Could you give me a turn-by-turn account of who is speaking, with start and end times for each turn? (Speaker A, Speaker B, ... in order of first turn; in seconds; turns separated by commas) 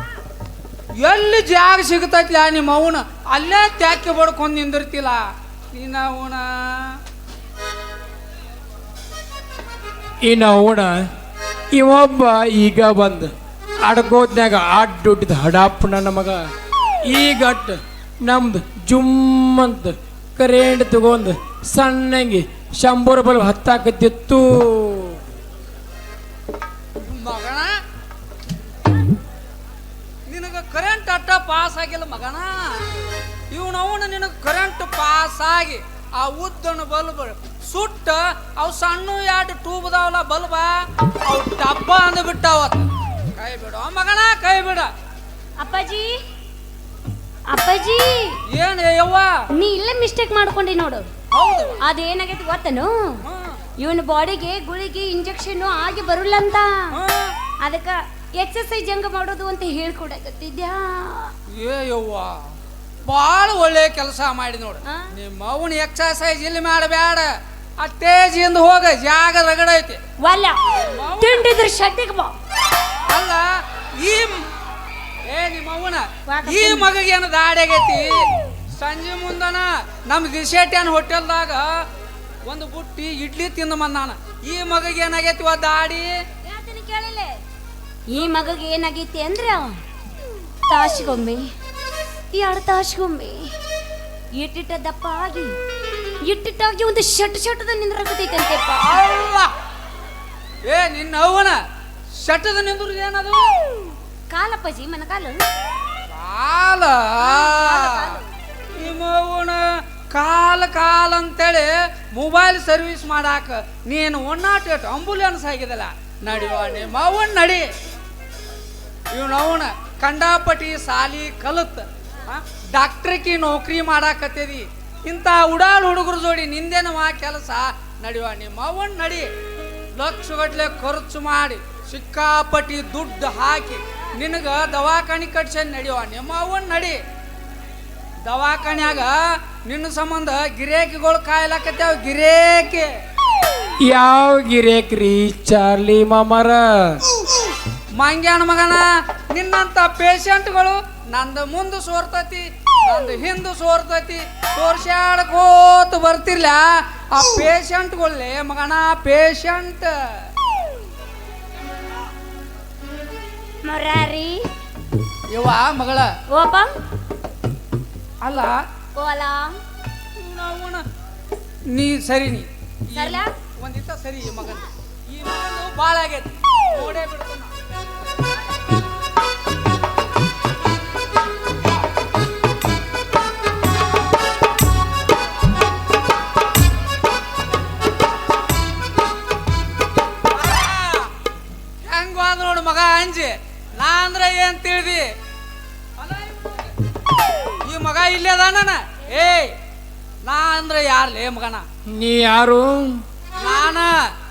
Speaker A: 1.0-7.0, Speaker B: 10.2-11.0, Speaker B: 11.7-13.3, Speaker B: 13.8-16.4, Speaker B: 17.0-25.2, Speaker A: 27.0-27.7, Speaker A: 30.3-32.8, Speaker A: 33.5-44.9, Speaker C: 45.6-46.1, Speaker C: 47.5-48.4, Speaker A: 48.5-49.4, Speaker C: 49.5-51.1, Speaker A: 51.3-51.8, Speaker C: 51.8-53.2, Speaker A: 53.2-53.6, Speaker C: 53.8-57.0, Speaker A: 56.9-57.4, Speaker C: 57.6-61.3, Speaker A: 61.5-62.4, Speaker A: 63.1-70.0, Speaker C: 70.2-70.6, Speaker A: 70.7-71.5, Speaker C: 71.1-72.3, Speaker A: 73.1-74.5, Speaker A: 75.3-81.8, Speaker C: 76.3-76.9, Speaker A: 82.4-86.2, Speaker C: 86.4-87.4, Speaker C: 88.1-89.8, Speaker C: 90.7-91.5, Speaker C: 92.3-93.5, Speaker C: 94.3-95.5, Speaker C: 96.2-99.0, Speaker A: 98.9-99.5, Speaker A: 100.6-101.6, Speaker A: 102.2-103.5, Speaker C: 104.3-105.4, Speaker A: 106.1-108.2, Speaker C: 107.2-108.3, Speaker A: 108.7-117.7, Speaker A: 119.1-129.3, Speaker A: 129.9-137.0, Speaker A: 138.2-142.9, Speaker B: 143.8-147.0, Speaker A: 147.9-160.2, Speaker C: 163.6-164.5, Speaker A: 165.3-166.1, Speaker C: 166.3-166.8, Speaker A: 168.2-168.6, Speaker C: 168.9-169.6, Speaker A: 170.2-170.8, Speaker A: 171.7-177.5, Speaker C: 172.9-173.3, Speaker A: 190.3-191.1, Speaker A: 191.8-195.1, Speaker A: 196.0-196.7, Speaker A: 197.6-199.5, Speaker A: 200.2-201.6, Speaker B: 201.9-203.0, Speaker A: 203.4-204.0